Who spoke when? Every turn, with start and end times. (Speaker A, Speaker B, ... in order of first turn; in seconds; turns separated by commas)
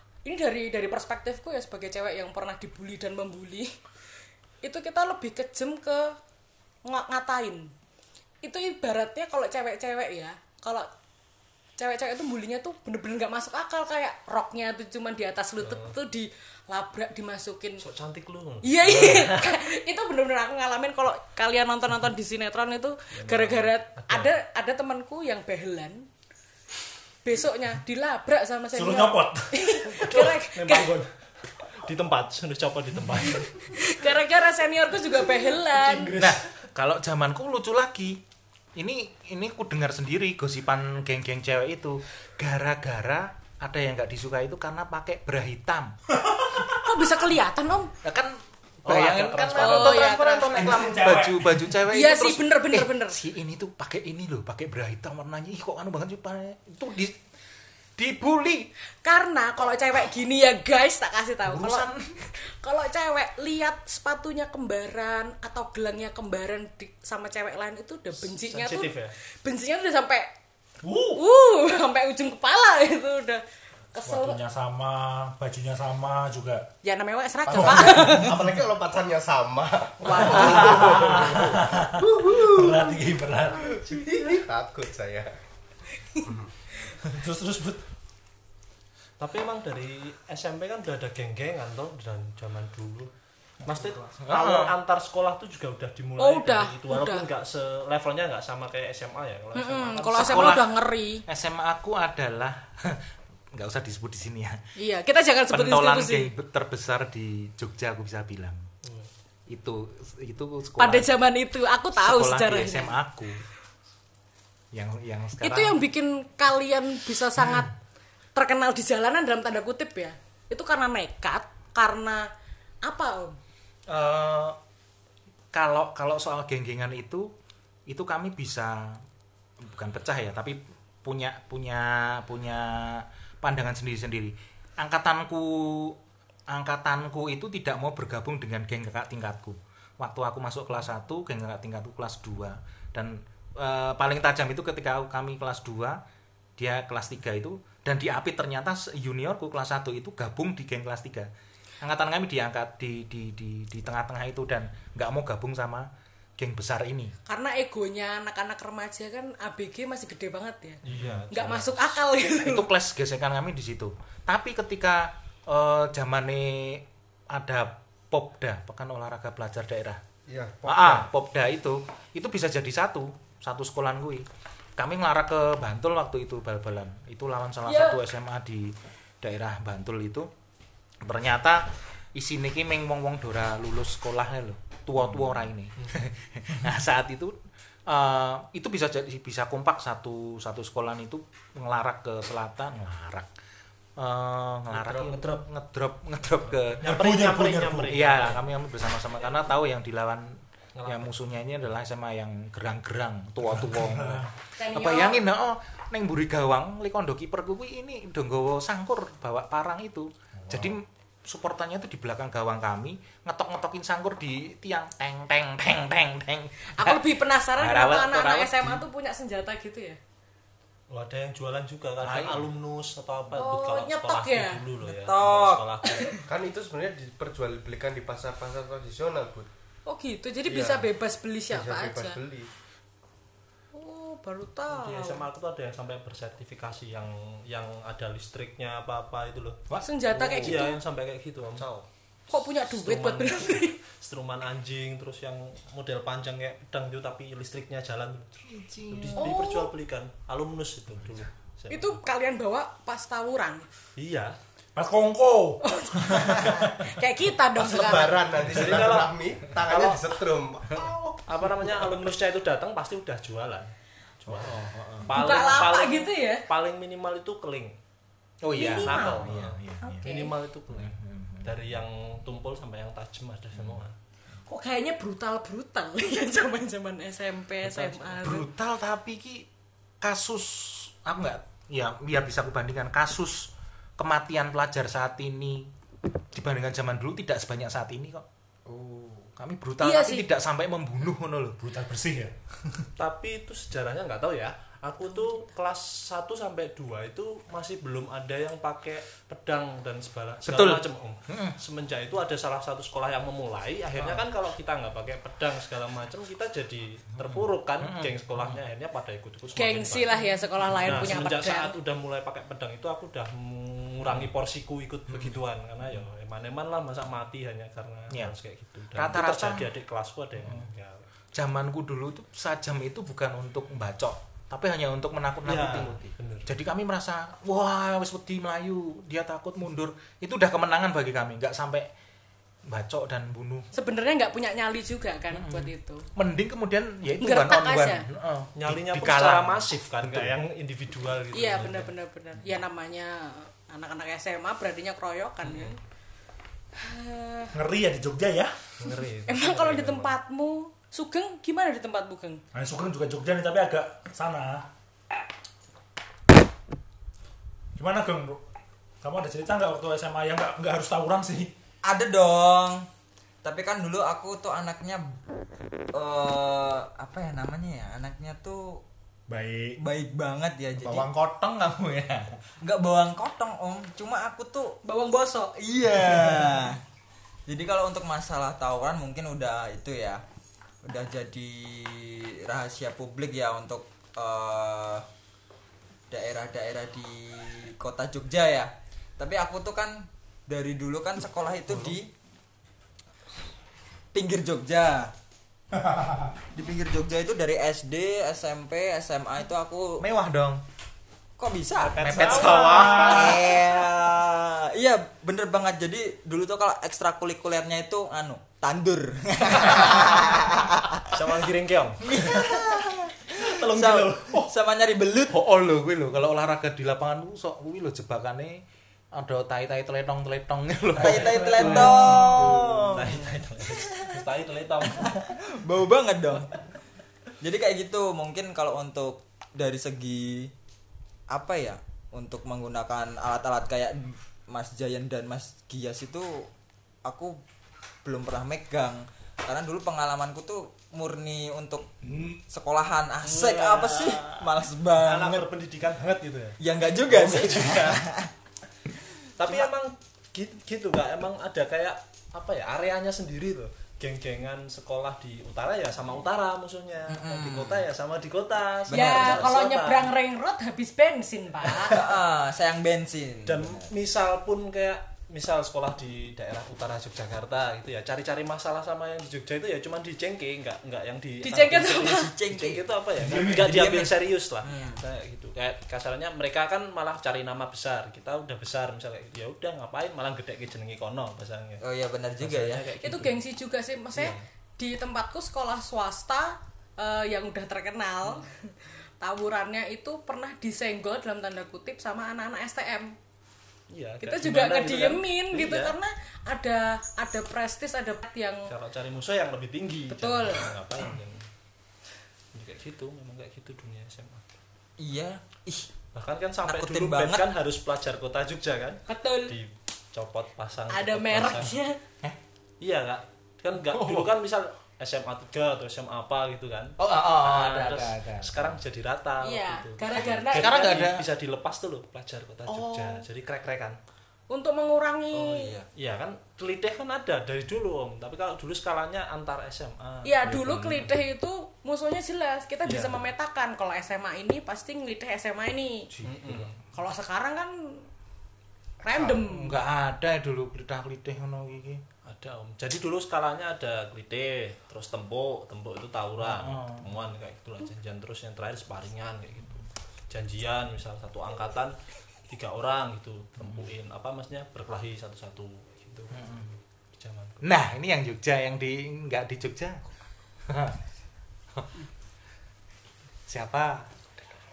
Speaker A: 0.2-3.7, Speaker A: 4.6-6.1, Speaker A: 6.8-7.7, Speaker A: 8.4-10.9, Speaker A: 11.8-17.8, Speaker B: 15.6-15.9, Speaker B: 17.8-19.5, Speaker A: 18.6-26.0, Speaker B: 23.1-24.3, Speaker A: 27.2-30.9, Speaker C: 28.7-29.7, Speaker B: 30.0-31.1, Speaker B: 31.6-33.6, Speaker A: 33.7-36.2, Speaker B: 35.6-36.3, Speaker C: 36.1-36.4, Speaker D: 36.1-38.2, Speaker D: 38.8-46.0, Speaker C: 46.1-46.8, Speaker A: 46.7-47.9, Speaker D: 48.0-57.2, Speaker B: 48.8-50.1, Speaker A: 49.4-51.0, Speaker C: 50.6-51.7, Speaker A: 51.9-53.2, Speaker D: 58.0-58.7, Speaker A: 59.0-61.9, Speaker D: 61.5-62.2, Speaker A: 62.4-70.3, Speaker B: 68.2-69.1, Speaker C: 70.8-71.2, Speaker A: 71.1-73.4, Speaker A: 73.9-74.4, Speaker C: 74.0-76.7, Speaker A: 76.8-78.3, Speaker E: 77.5-83.0, Speaker C: 77.5-78.4, Speaker A: 80.1-80.7, Speaker C: 80.1-83.8, Speaker E: 83.7-85.3, Speaker C: 87.0-87.8, Speaker B: 89.2-93.1, Speaker B: 93.6-100.4, Speaker D: 94.2-94.7, Speaker A: 96.2-97.3, Speaker A: 99.5-101.2, Speaker D: 99.9-100.7, Speaker D: 101.2-103.0, Speaker D: 103.5-104.6, Speaker A: 104.8-106.3, Speaker D: 105.5-108.6, Speaker B: 108.8-109.1, Speaker D: 109.5-111.1, Speaker A: 110.8-113.0, Speaker D: 112.0-113.4, Speaker D: 114.7-115.8, Speaker A: 115.4-117.7, Speaker A: 118.3-122.2, Speaker A: 122.8-123.3, Speaker D: 123.9-124.6, Speaker D: 125.5-127.3, Speaker D: 127.9-129.0, Speaker D: 129.6-135.9, Speaker D: 136.5-146.0, Speaker D: 146.6-151.3, Speaker D: 151.8-157.1, Speaker A: 157.3-162.7, Speaker B: 160.8-161.9, Speaker C: 160.9-161.3, Speaker D: 162.2-170.0, Speaker E: 170.3-171.1, Speaker D: 170.7-174.2, Speaker D: 174.8-180.3, Speaker A: 177.6-178.0, Speaker D: 181.0-187.4, Speaker B: 185.8-186.0, Speaker D: 187.9-193.3, Speaker D: 194.0-196.8, Speaker B: 194.7-195.4, Speaker C: 196.8-197.9, Speaker B: 196.8-198.4, Speaker D: 197.9-218.8, Speaker B: 200.8-201.1, Speaker C: 203.5-204.3, Speaker A: 204.6-205.2, Speaker C: 210.4-210.7, Speaker A: 216.7-220.0, Speaker B: 220.9-226.2, Speaker D: 222.0-222.4, Speaker A: 223.3-224.6, Speaker F: 224.8-225.9, Speaker E: 226.3-229.5, Speaker A: 229.8-232.2, Speaker E: 230.4-230.9, Speaker E: 231.5-232.5, Speaker A: 233.7-235.2, Speaker B: 234.7-239.7, Speaker D: 239.7-240.6, Speaker A: 239.8-240.8, Speaker B: 240.4-241.7, Speaker E: 241.5-241.8, Speaker A: 242.3-243.8, Speaker B: 242.7-248.4, Speaker D: 248.5-249.2, Speaker B: 248.9-251.9, Speaker A: 249.2-249.7, Speaker A: 251.7-253.7, Speaker B: 254.0-254.4, Speaker C: 254.8-256.8, Speaker A: 255.6-258.2, Speaker E: 257.5-261.1, Speaker B: 258.4-260.2, Speaker B: 261.3-267.7, Speaker D: 264.3-265.1, Speaker A: 265.1-266.4, Speaker D: 268.4-270.1, Speaker A: 268.5-270.4, Speaker B: 268.8-273.9, Speaker D: 270.7-271.6, Speaker A: 274.4-278.5, Speaker B: 277.6-278.2, Speaker D: 278.2-279.5, Speaker D: 280.0-285.7, Speaker D: 286.3-288.2, Speaker E: 288.6-289.3, Speaker D: 289.4-291.6, Speaker A: 289.8-290.3, Speaker C: 291.6-292.9, Speaker B: 293.0-310.1, Speaker D: 300.4-301.6, Speaker D: 304.0-304.2, Speaker D: 307.3-308.6, Speaker A: 309.5-311.7, Speaker B: 310.8-321.0, Speaker D: 318.9-319.7, Speaker D: 320.4-320.7, Speaker D: 321.3-331.9, Speaker B: 325.4-326.5, Speaker D: 332.7-333.7, Speaker A: 333.7-336.0, Speaker D: 335.3-340.3, Speaker A: 337.2-338.0, Speaker B: 338.5-341.9, Speaker A: 341.3-345.8, Speaker B: 345.4-345.8, Speaker A: 346.8-347.5, Speaker C: 347.5-348.6, Speaker B: 348.8-350.1, Speaker A: 349.3-352.4, Speaker C: 352.5-354.6, Speaker C: 357.8-358.4, Speaker C: 359.0-361.5, Speaker F: 361.9-362.9, Speaker F: 363.4-365.0, Speaker F: 365.9-368.8, Speaker C: 369.3-369.8, Speaker F: 369.8-371.1, Speaker D: 370.8-372.3, Speaker F: 372.6-374.8, Speaker A: 374.8-375.6, Speaker F: 375.6-376.8, Speaker F: 377.5-380.2, Speaker F: 380.8-385.0, Speaker F: 386.1-392.1, Speaker F: 394.1-395.1, Speaker C: 395.8-396.3, Speaker F: 396.5-400.0, Speaker D: 400.0-400.6, Speaker F: 401.4-411.1, Speaker B: 401.8-403.4, Speaker D: 402.0-403.3, Speaker B: 409.6-410.2, Speaker B: 411.1-412.5, Speaker F: 412.0-415.3, Speaker B: 413.3-414.5, Speaker D: 415.3-418.6, Speaker D: 419.1-421.9, Speaker F: 420.9-423.2, Speaker B: 421.0-425.2, Speaker F: 423.8-424.2, Speaker F: 424.8-426.6, Speaker F: 427.4-430.5, Speaker F: 431.3-436.5, Speaker F: 437.0-437.4, Speaker F: 438.0-441.9, Speaker C: 442.1-442.4, Speaker F: 442.4-445.5, Speaker B: 443.2-448.0, Speaker F: 446.6-448.3, Speaker B: 449.4-460.1, Speaker F: 449.4-449.7, Speaker F: 457.1-457.9, Speaker F: 458.9-459.5, Speaker A: 458.9-462.0, Speaker F: 461.7-463.9, Speaker B: 463.4-481.8, Speaker A: 471.4-472.3, Speaker F: 471.7-472.8, Speaker C: 473.2-473.8, Speaker F: 473.5-475.0, Speaker F: 481.8-482.9, Speaker B: 482.4-483.4, Speaker A: 483.0-493.1, Speaker B: 484.1-484.4, Speaker B: 493.9-495.9, Speaker A: 494.2-498.7, Speaker B: 498.7-501.4, Speaker A: 500.1-500.7, Speaker B: 502.5-504.4, Speaker F: 505.0-505.9, Speaker B: 506.1-511.7, Speaker F: 506.6-507.5, Speaker A: 509.1-509.6, Speaker A: 510.9-512.0, Speaker B: 512.8-524.0, Speaker D: 517.0-518.8, Speaker A: 519.4-521.1, Speaker D: 520.5-521.2, Speaker D: 522.7-523.2, Speaker A: 524.5-525.8, Speaker F: 525.3-525.9, Speaker B: 525.9-530.9, Speaker A: 530.2-536.1, Speaker B: 532.8-533.2, Speaker D: 536.1-536.8, Speaker B: 536.2-536.8, Speaker A: 536.9-538.0, Speaker A: 539.0-539.8, Speaker E: 539.0-539.4, Speaker D: 539.4-542.0, Speaker B: 542.2-551.9, Speaker D: 546.4-547.0, Speaker B: 552.5-556.4, Speaker D: 553.6-553.9, Speaker D: 556.3-556.7, Speaker B: 557.2-557.6, Speaker D: 557.6-560.0, Speaker D: 560.7-561.0, Speaker D: 563.5-564.1